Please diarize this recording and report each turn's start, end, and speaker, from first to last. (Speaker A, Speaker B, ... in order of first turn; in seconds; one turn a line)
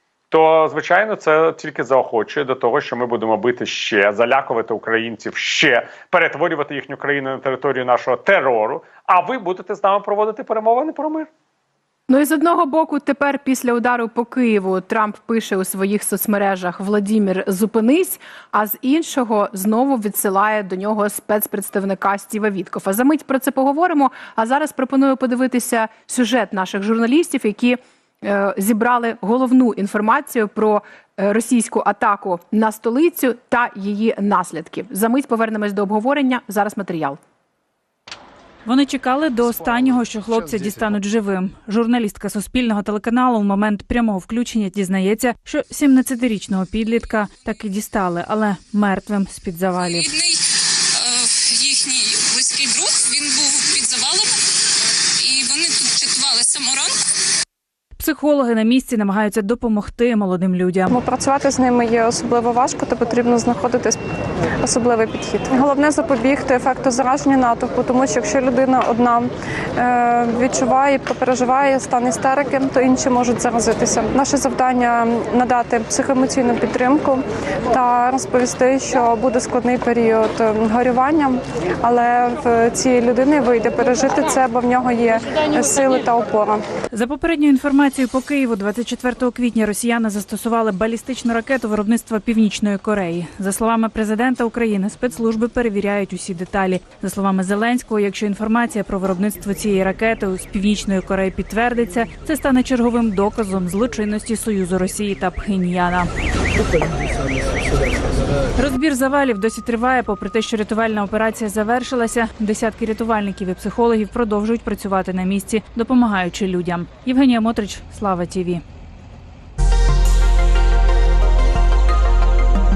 Speaker A: 0.3-11.3
Speaker B: 12.1-37.2
Speaker C: 38.6-50.2
Speaker D: 50.0-54.4
Speaker D: 55.2-57.0
Speaker C: 58.0-60.9
Speaker E: 60.9-64.0
Speaker E: 64.6-86.7
Speaker C: 86.9-106.1
Speaker C: 108.5-118.6